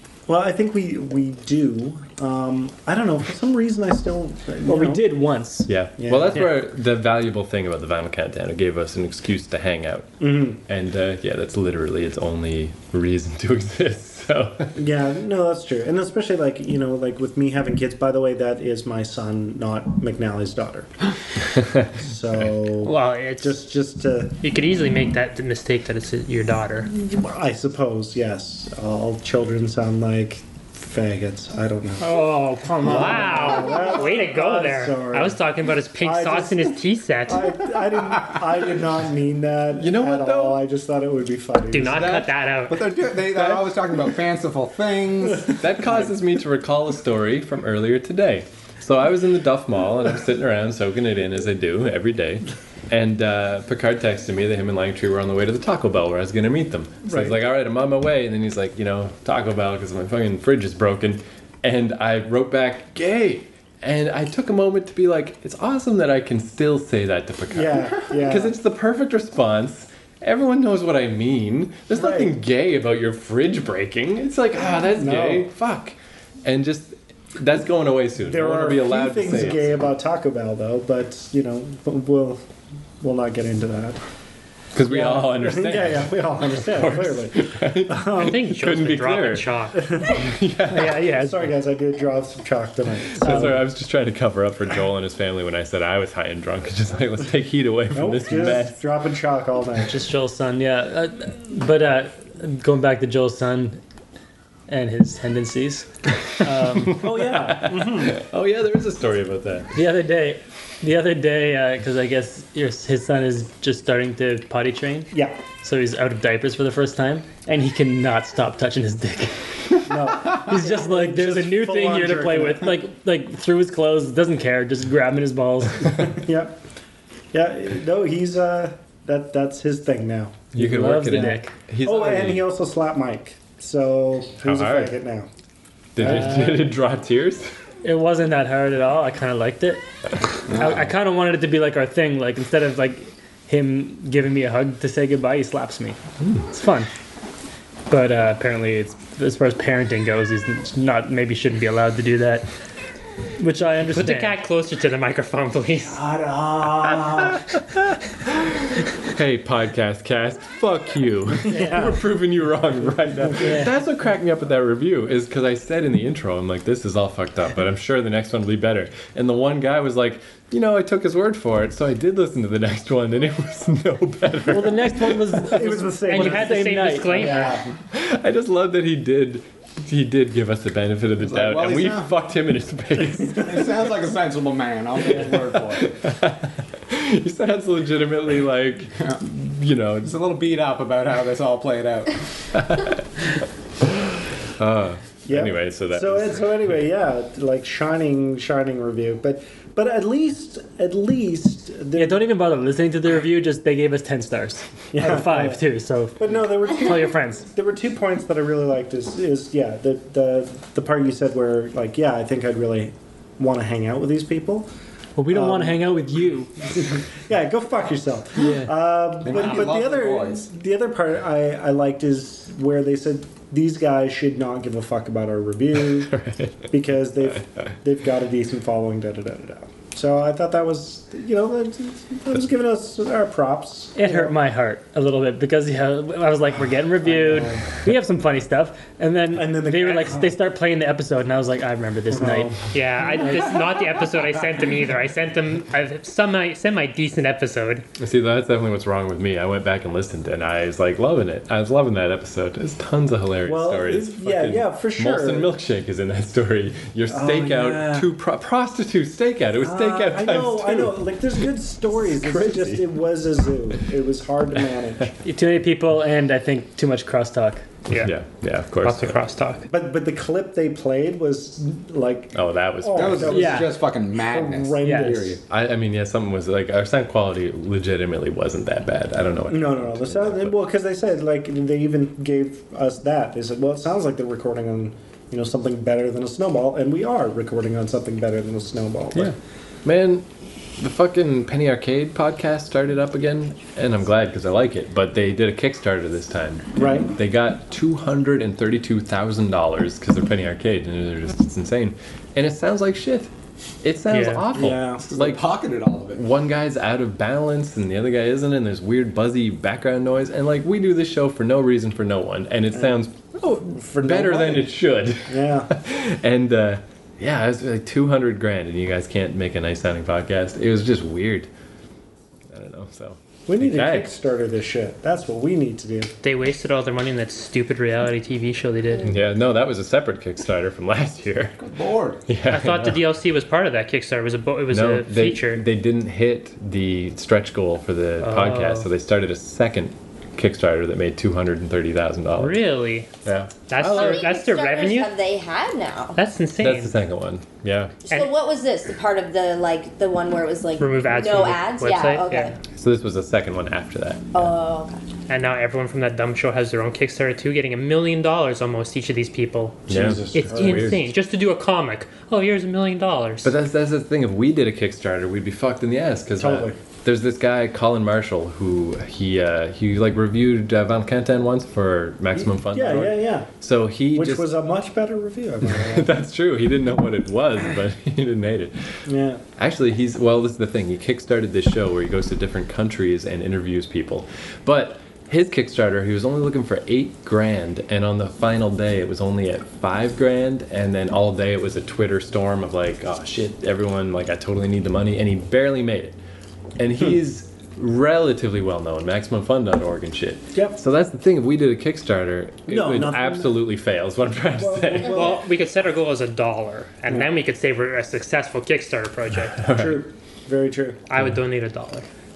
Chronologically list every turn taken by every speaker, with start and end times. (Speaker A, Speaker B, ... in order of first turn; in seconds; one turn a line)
Speaker A: 0.3-5.2
Speaker B: 4.6-5.7
Speaker C: 5.7-14.7
Speaker A: 6.0-6.4
Speaker A: 10.2-10.6
Speaker A: 14.8-20.9
Speaker A: 21.9-24.3
Speaker D: 22.8-23.5
Speaker D: 24.4-26.9
Speaker A: 26.9-32.2
Speaker B: 32.0-33.8
Speaker A: 32.8-35.4
Speaker D: 32.8-37.5
Speaker A: 36.0-36.7
Speaker A: 37.3-42.1
Speaker C: 39.8-40.6
Speaker D: 41.7-42.8
Speaker E: 41.8-45.5
Speaker C: 45.5-79.8
Speaker A: 57.0-57.4
Speaker A: 67.5-68.5
Speaker A: 71.9-72.3
Speaker A: 75.0-75.5
Speaker A: 78.2-82.5
Speaker A: 83.0-84.0
Speaker C: 84.7-91.1
Speaker A: 84.9-88.4
Speaker D: 88.2-90.0
Speaker A: 89.8-90.2
Speaker B: 90.7-91.5
Speaker A: 91.1-93.6
Speaker C: 93.2-98.8
Speaker A: 97.9-100.0
Speaker B: 99.9-103.8
Speaker B: 104.7-107.0
Speaker C: 106.8-109.7
Speaker A: 107.0-108.2
Speaker B: 109.7-115.1
Speaker A: 115.1-115.4
Speaker B: 115.6-119.4
Speaker A: 119.9-122.8
Speaker B: 120.5-126.1
Speaker A: 126.0-126.6
Speaker A: 127.3-130.5
Speaker C: 130.5-132.5
Speaker B: 130.5-131.5
Speaker A: 131.8-135.3
Speaker C: 134.4-134.9
Speaker C: 135.9-137.5
Speaker A: 136.0-136.4
Speaker B: 136.0-136.6
Speaker B: 137.8-139.8
Speaker E: 140.5-140.8
Speaker B: 140.5-146.9
Speaker B: 147.9-152.4
Speaker B: 153.4-154.3
Speaker D: 153.9-156.0
Speaker A: 155.9-157.4
Speaker C: 159.1-175.4
Speaker A: 161.5-161.9
Speaker B: 161.5-161.8
Speaker B: 163.4-163.7
Speaker B: 174.5-177.4
Speaker A: 175.5-177.6
Speaker D: 176.1-177.6
Speaker C: 177.9-183.6
Speaker E: 181.2-182.1
Speaker E: 183.3-185.9
Speaker C: 185.6-190.1
Speaker E: 190.0-192.2
Speaker C: 192.5-193.0
Speaker C: 194.6-196.6
Speaker A: 195.2-202.3
Speaker B: 201.9-207.4
Speaker A: 204.9-205.6
Speaker A: 206.2-214.7
Speaker B: 215.2-216.8
Speaker A: 215.3-215.8
Speaker A: 216.8-226.1
Speaker C: 218.4-218.7
Speaker E: 219.2-220.5
Speaker C: 225.9-226.7
Speaker A: 226.7-234.3
Speaker B: 233.9-242.5
Speaker A: 237.0-237.7
Speaker A: 239.3-240.3
Speaker A: 242.1-242.6
Speaker D: 242.7-247.8
Speaker C: 248.0-261.2
Speaker A: 253.4-255.5
Speaker A: 257.1-258.1
Speaker A: 259.6-265.1
Speaker C: 262.1-263.0
Speaker B: 265.2-267.6
Speaker C: 267.9-269.1
Speaker D: 268.8-269.6
Speaker A: 269.7-275.4
Speaker C: 272.3-273.5
Speaker E: 272.9-275.4
Speaker B: 273.3-273.7
Speaker B: 274.8-275.1
Speaker C: 275.5-280.5
Speaker A: 279.5-289.3
Speaker C: 289.1-290.2
Speaker C: 290.8-303.3
Speaker A: 296.8-297.1
Speaker C: 303.8-305.4
Speaker D: 304.1-304.4
Speaker A: 304.5-305.0
Speaker E: 305.0-306.2
Speaker C: 306.1-321.5
Speaker A: 313.7-314.7
Speaker A: 315.3-315.7
Speaker C: 322.5-324.1
Speaker A: 323.5-326.1
Speaker D: 326.2-329.1
Speaker C: 329.0-331.6
Speaker E: 331.6-332.2
Speaker C: 332.3-333.0
Speaker D: 332.5-335.6
Speaker C: 334.7-342.6
Speaker D: 338.2-338.9
Speaker D: 342.4-343.1
Speaker C: 343.2-344.2
Speaker D: 343.7-345.1
Speaker F: 343.8-346.2
Speaker D: 346.1-346.9
Speaker C: 346.6-348.0
Speaker F: 348.1-352.5
Speaker D: 350.8-352.5
Speaker C: 352.8-354.5
Speaker F: 354.3-355.1
Speaker D: 355.3-363.5
Speaker C: 359.9-361.1
Speaker A: 359.9-360.9
Speaker C: 363.4-374.5
Speaker A: 366.4-366.8
Speaker A: 372.4-373.5
Speaker A: 374.1-376.1
Speaker C: 375.7-378.8
Speaker A: 379.1-379.4
Speaker C: 379.6-396.2
Speaker C: 396.8-405.3
Speaker A: 402.7-403.6
Speaker A: 404.6-405.4
Speaker D: 405.1-409.6
Speaker C: 409.6-410.0
Speaker A: 409.7-411.0
Speaker D: 411.1-412.1